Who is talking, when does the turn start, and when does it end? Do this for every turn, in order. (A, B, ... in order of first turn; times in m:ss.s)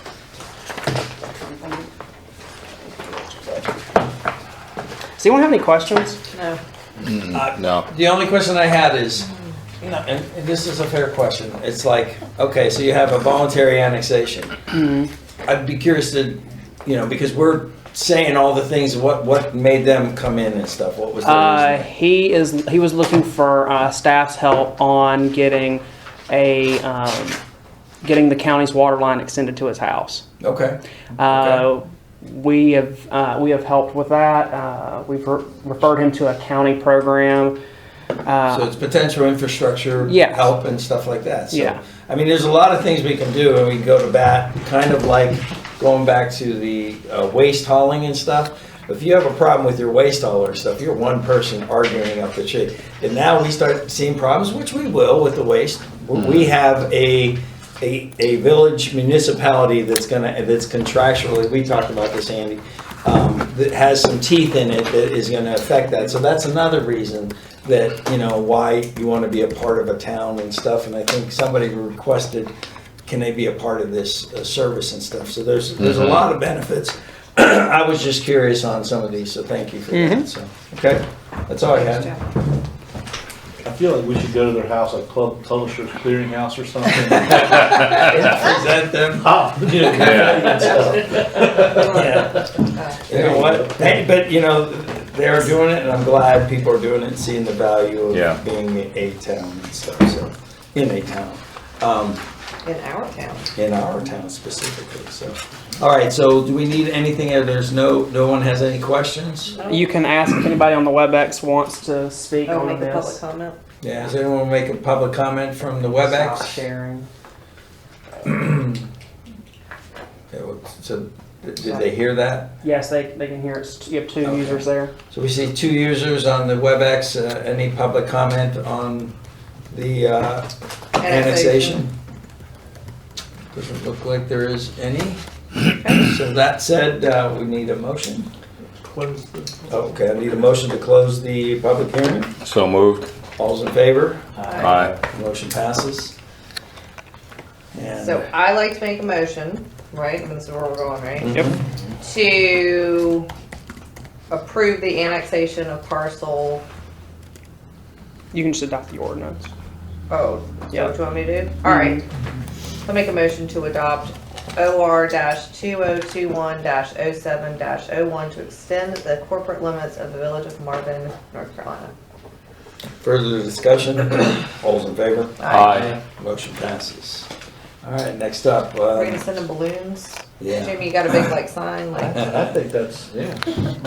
0:01.6-0:01.8 A
0:05.2-0:06.2 A
0:06.3-0:06.6 B
0:07.0-0:07.8 C
0:07.3-0:09.3 D
0:09.8-0:14.6 D
0:14.7-0:15.1 A
0:15.4-0:21.8 D
0:21.2-0:27.4 A
0:28.0-0:30.2 A
0:30.4-0:31.6 D
0:31.2-0:37.6 A
0:38.2-0:38.7 A
0:38.5-1:12.5 D
0:40.0-0:40.5 A
0:41.5-0:41.8 A
1:13.0-1:22.1 D
1:15.9-1:16.1 C
1:19.9-1:20.3 A
1:21.7-1:22.2 B
1:23.6-1:27.6 E
1:27.0-1:31.0 D
1:29.2-1:32.3 E
1:30.0-1:30.4 C
1:30.7-1:31.7 B
1:31.5-1:32.5 D
1:32.8-1:33.0 B
1:33.1-1:42.2 D
1:33.1-1:34.0 E
1:38.1-1:38.4 C
1:42.6-1:43.5 B
1:43.6-1:49.6 D
1:49.6-1:49.9 B
1:49.7-1:53.2 A
1:52.4-1:53.6 B
1:53.8-1:56.6 D
1:56.0-1:57.1 A
1:58.2-1:58.9 D
2:00.3-2:02.5 D
2:02.6-2:04.9 A
2:04.2-2:09.1 D
2:09.7-2:10.5 D
2:11.0-2:11.8 B
2:11.0-2:11.9 D
2:13.5-2:15.2 D
2:15.7-2:16.1 B
2:15.9-2:18.3 D
2:18.8-2:19.7 E
2:19.7-2:22.3 D
2:22.4-2:23.1 C
2:23.4-2:26.2 D
2:24.4-2:24.8 B
2:24.6-2:24.9 E
2:24.6-2:24.9 C
2:27.8-2:28.2 D
2:28.0-2:31.4 B
2:31.2-2:31.6 D
2:32.0-2:33.3 B
2:34.3-2:36.6 B
2:38.3-2:39.5 A
2:40.1-2:42.1 B
2:41.6-2:42.0 A
2:42.8-2:51.9 B
2:53.0-2:57.3 D
2:55.4-2:56.0 B
2:55.5-2:56.0 C
2:57.8-2:59.2 D
2:58.9-3:02.3 B
3:00.4-3:00.8 D
3:01.9-3:03.7 E